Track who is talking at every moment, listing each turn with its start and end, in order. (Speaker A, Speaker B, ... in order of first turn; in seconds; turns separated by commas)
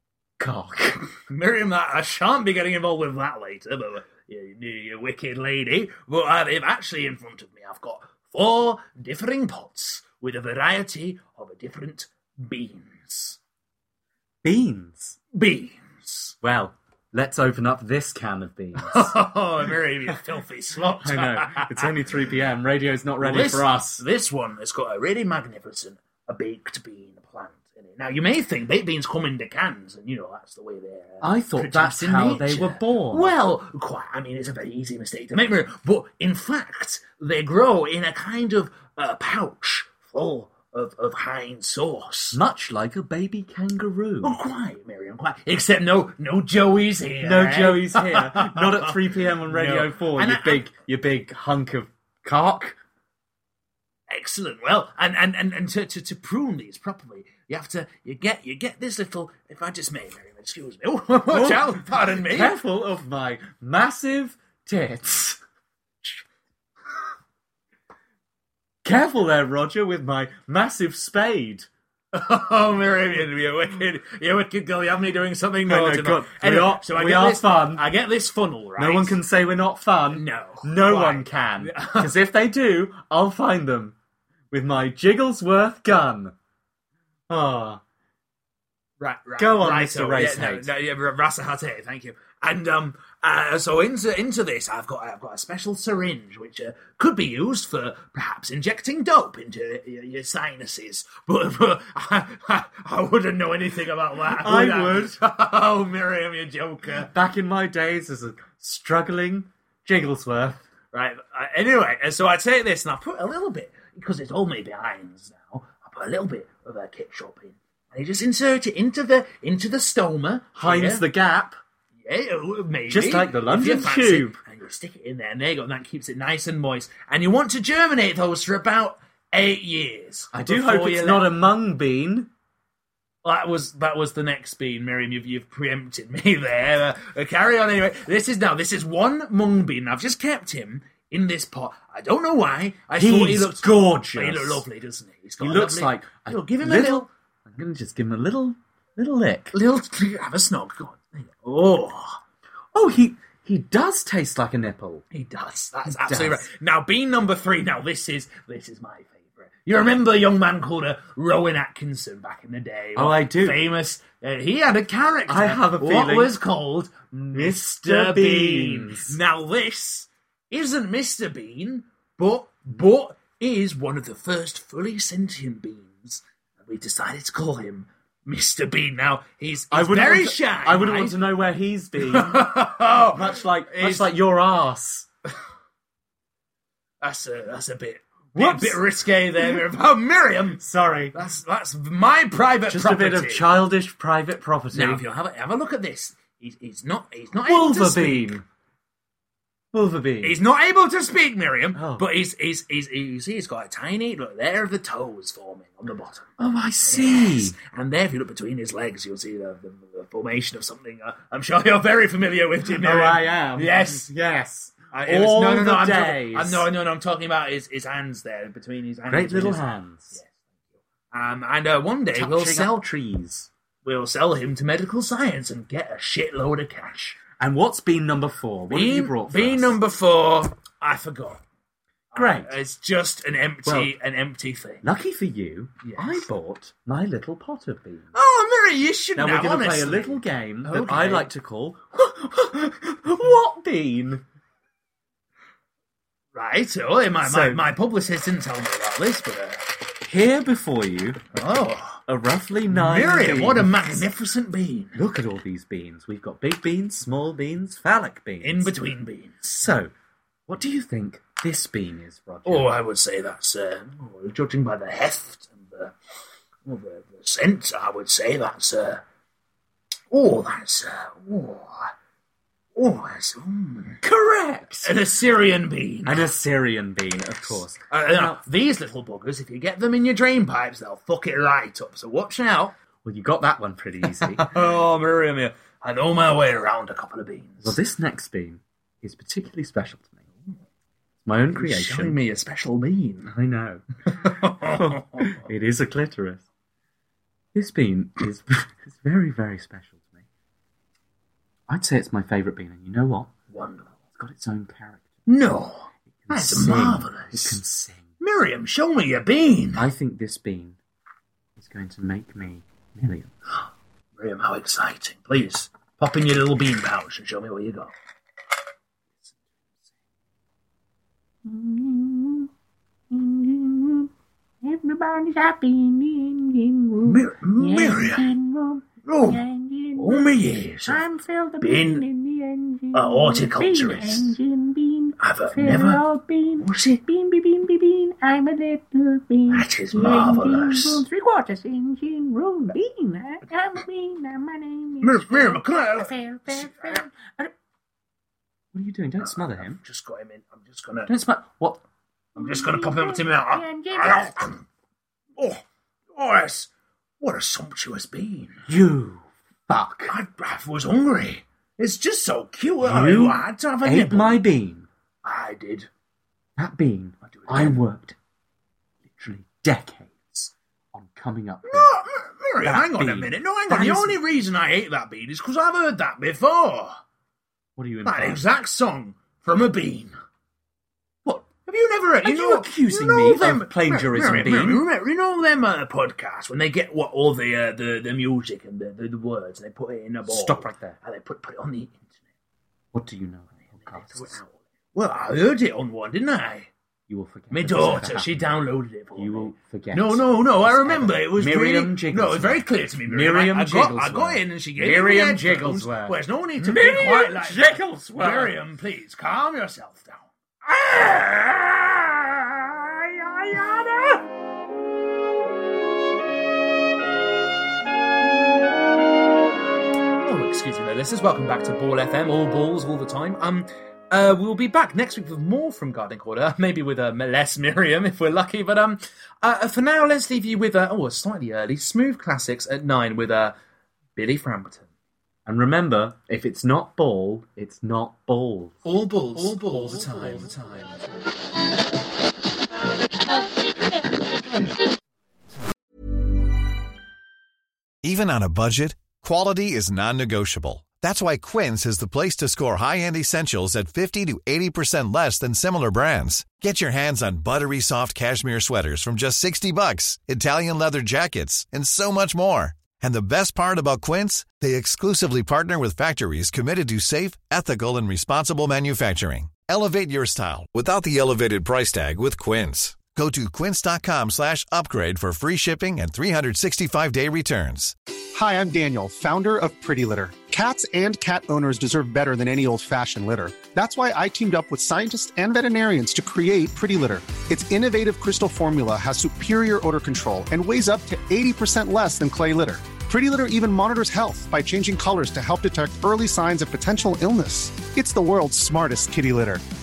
Speaker A: 0.4-1.1, Speaker B: 1.3-13.4, Speaker A: 14.4-15.2, Speaker B: 15.3-16.3, Speaker A: 16.4-19.1, Speaker B: 18.8-21.9, Speaker A: 21.0-24.0, Speaker B: 23.2-42.4, Speaker A: 31.2-33.3, Speaker A: 42.3-44.4, Speaker B: 44.2-50.7, Speaker A: 47.2-52.8, Speaker B: 54.1-62.6, Speaker A: 61.3-65.4, Speaker A: 68.8-71.7, Speaker B: 72.1-79.2, Speaker A: 75.7-77.9, Speaker A: 78.8-83.9, Speaker B: 80.1-82.1, Speaker A: 84.5-86.3, Speaker A: 87.3-87.8, Speaker B: 89.0-107.1, Speaker A: 89.4-90.7, Speaker A: 104.3-105.2, Speaker A: 107.0-110.6, Speaker B: 110.9-121.0, Speaker A: 120.6-121.6, Speaker B: 122.0-131.3, Speaker A: 122.9-124.4, Speaker A: 130.3-132.3, Speaker B: 133.2-147.1, Speaker A: 143.0-144.6, Speaker A: 145.4-149.5, Speaker B: 149.5-152.2, Speaker A: 152.7-155.0, Speaker B: 155.1-181.2, Speaker A: 155.9-156.4, Speaker A: 162.9-163.6, Speaker A: 165.3-166.4, Speaker A: 167.3-169.2, Speaker A: 179.7-182.5, Speaker B: 182.0-184.1, Speaker A: 183.1-185.1, Speaker B: 187.0-193.4, Speaker A: 188.3-188.8, Speaker A: 190.6-191.2, Speaker A: 192.7-195.0, Speaker B: 194.7-198.4, Speaker A: 197.4-198.4, Speaker A: 199.7-200.4, Speaker B: 200.2-214.1, Speaker A: 201.7-202.1, Speaker A: 206.4-207.6, Speaker A: 212.7-216.7, Speaker B: 214.9-219.6, Speaker A: 219.1-220.2, Speaker B: 221.1-222.8, Speaker A: 222.1-223.5, Speaker B: 223.8-227.2, Speaker A: 227.4-229.7, Speaker B: 228.7-231.4, Speaker B: 232.1-234.8, Speaker A: 232.1-232.6, Speaker A: 233.6-233.9, Speaker A: 234.8-238.1, Speaker B: 235.8-236.3, Speaker B: 238.1-241.3, Speaker A: 239.2-244.2, Speaker B: 246.3-249.7, Speaker A: 247.2-247.6, Speaker A: 250.0-251.2, Speaker B: 251.3-252.0, Speaker A: 252.1-254.0, Speaker B: 252.7-255.0, Speaker A: 254.9-258.7, Speaker B: 258.4-259.6, Speaker A: 259.6-259.9, Speaker A: 260.5-262.8, Speaker B: 262.4-265.9, Speaker B: 266.6-269.0, Speaker B: 270.1-271.9, Speaker B: 272.8-274.0, Speaker A: 274.0-275.0, Speaker B: 274.8-276.3, Speaker A: 276.0-278.4, Speaker B: 277.9-282.8, Speaker A: 283.0-284.7, Speaker B: 284.1-287.8, Speaker A: 287.6-290.2, Speaker A: 291.2-292.2, Speaker B: 291.5-293.3, Speaker A: 293.2-296.4, Speaker B: 294.1-295.4, Speaker A: 297.5-300.2, Speaker A: 301.7-303.3, Speaker B: 303.5-303.9, Speaker A: 304.2-305.2, Speaker B: 305.3-307.6, Speaker A: 306.1-308.1, Speaker B: 308.2-309.9, Speaker A: 309.8-310.8, Speaker A: 311.6-313.3, Speaker B: 314.2-317.9, Speaker C: 321.4-322.5, Speaker C: 323.1-324.1, Speaker C: 324.6-330.3, Speaker B: 327.1-328.3, Speaker B: 329.0-329.4, Speaker B: 329.9-332.0, Speaker C: 330.8-347.5, Speaker B: 332.9-334.4, Speaker B: 335.2-336.0, Speaker B: 336.6-337.0, Speaker B: 339.5-341.0, Speaker B: 345.0-347.0, Speaker A: 348.7-349.8, Speaker B: 349.2-351.1, Speaker A: 351.1-351.8, Speaker C: 352.4-354.4, Speaker B: 352.4-354.6, Speaker B: 355.4-355.6, Speaker B: 356.1-356.7, Speaker B: 357.2-358.6, Speaker A: 358.7-360.1, Speaker B: 360.1-364.4, Speaker A: 362.8-364.9, Speaker B: 365.2-365.9, Speaker A: 366.6-368.1, Speaker B: 367.2-367.8, Speaker A: 369.1-371.9, Speaker B: 371.6-377.0, Speaker A: 372.6-374.2, Speaker A: 377.8-378.4, Speaker B: 378.0-380.1, Speaker B: 381.4-392.0, Speaker A: 382.2-384.9, Speaker A: 390.3-391.0, Speaker A: 392.9-394.4, Speaker B: 393.8-396.7, Speaker A: 397.1-398.5, Speaker B: 397.5-410.3, Speaker A: 399.1-408.5, Speaker A: 410.7-411.5, Speaker B: 410.8-411.2, Speaker A: 413.2-414.2, Speaker B: 420.2-433.6, Speaker B: 434.1-434.9, Speaker A: 435.4-438.8, Speaker B: 438.8-441.0, Speaker A: 439.4-440.5, Speaker D: 448.0-477.9, Speaker E: 478.3-499.6